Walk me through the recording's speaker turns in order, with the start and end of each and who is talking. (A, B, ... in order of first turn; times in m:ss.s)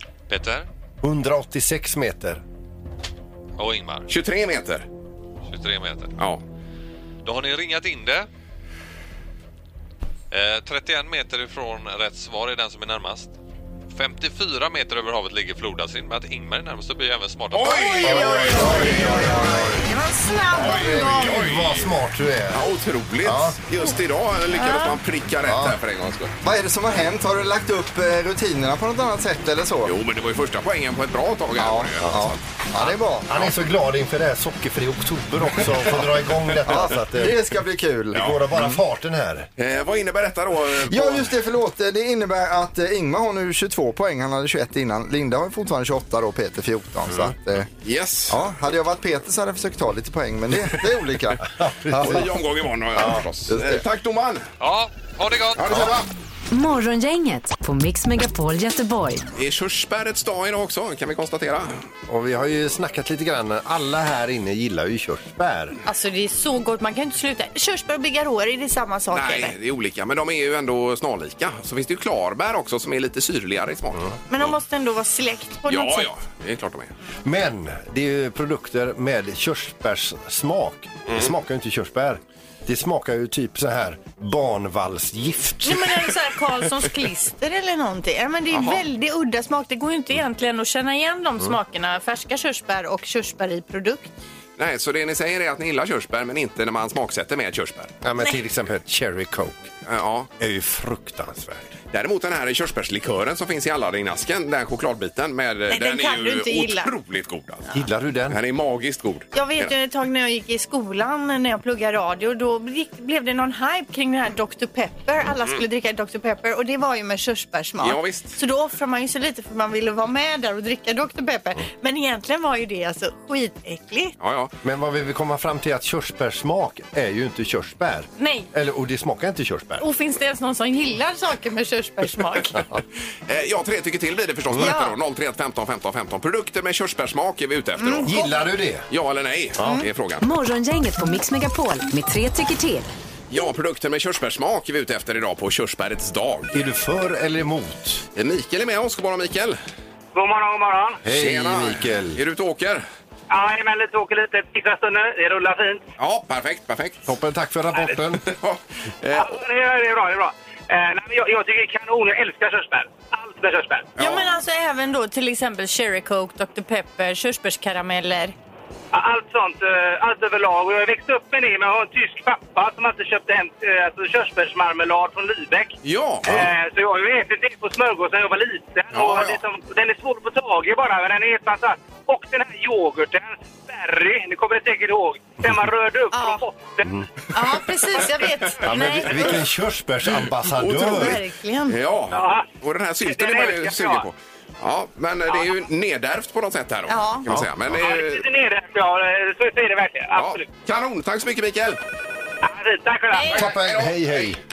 0:00.3-0:00.7 A
0:01.0-0:02.4 B
0:03.6-0:04.1 A
0:04.1-0:04.9 C
0:05.5-0:06.1 A
0:06.2-0:06.4 C
0:07.2-0:08.3 A
0:10.3-0:13.3 A
0:13.9-0:18.2 A
0:17.5-0:19.7 C
0:17.7-0:21.4 D
0:18.0-0:19.8 B
0:18.5-0:19.6 E
0:20.5-0:22.7 B
0:20.6-0:21.9 C
0:22.5-0:26.3 C
0:23.2-0:23.6 B
0:24.5-0:25.0 D
0:25.5-0:25.8 B
0:26.4-0:29.9 E
0:29.8-0:32.4 C
0:31.6-0:33.5 E
0:32.0-0:37.4 B
0:36.6-0:38.3 E
0:38.1-0:39.5 B
0:38.1-0:38.5 C
0:39.6-0:41.3 C
0:40.8-0:47.7 E
0:47.8-0:48.4 C
0:48.3-0:52.3 E
0:51.6-0:52.3 B
0:52.0-0:54.5 C
0:53.0-0:53.2 B
0:53.5-0:53.8 E
0:54.6-0:56.0 A
0:55.6-0:56.0 C
0:56.5-0:59.2 F
0:59.3-1:01.8 C
1:02.1-1:05.8 B
1:05.8-1:09.5 D
1:09.1-1:14.0 C
1:14.3-1:16.1 D
1:15.7-1:16.9 C
1:17.2-1:26.1 B
1:25.6-1:34.1 D
1:28.5-1:28.8 C
1:34.6-1:37.9 C
1:38.0-1:39.7 B
1:39.8-1:40.3 C
1:40.4-1:41.8 B
1:41.9-1:47.7 C
1:45.7-1:46.9 D
1:47.7-1:48.4 B
1:48.3-1:49.7 C
1:49.3-2:04.1 D
1:57.8-1:58.4 C
2:04.2-2:04.5 C
2:04.6-2:09.8 B
2:08.2-2:08.5 D
2:09.8-2:12.6 D
2:13.3-2:18.2 C
2:14.6-2:14.9 D
2:17.8-2:18.4 D
2:18.0-2:18.9 B
2:18.9-2:20.2 C
2:19.6-2:19.8 B
2:20.2-2:22.9 F
2:23.3-2:26.5 C
2:26.5-2:28.0 B
2:28.1-2:29.6 C
2:30.1-2:31.0 G
2:31.0-2:32.2 B
2:31.1-2:32.8 C
2:33.3-2:35.8 G
2:36.0-2:37.1 C
2:37.0-2:38.2 B
2:38.2-2:39.4 C
2:39.1-2:43.9 G
2:44.0-2:44.3 C
2:44.0-2:48.3 D
2:48.9-3:07.0 G
2:55.8-2:56.5 C
2:58.9-2:59.4 C
3:06.1-3:06.4 D
3:07.3-3:09.4 D
3:08.6-3:11.2 B
3:10.2-3:18.2 C
3:10.8-3:11.8 D
3:12.1-3:12.5 G
3:13.0-3:14.0 G
3:16.9-3:17.2 D
3:17.7-3:20.5 G
3:20.1-3:21.8 C
3:22.4-3:23.5 G
3:23.1-3:23.4 D
3:23.3-3:24.3 C
3:23.3-3:24.4 B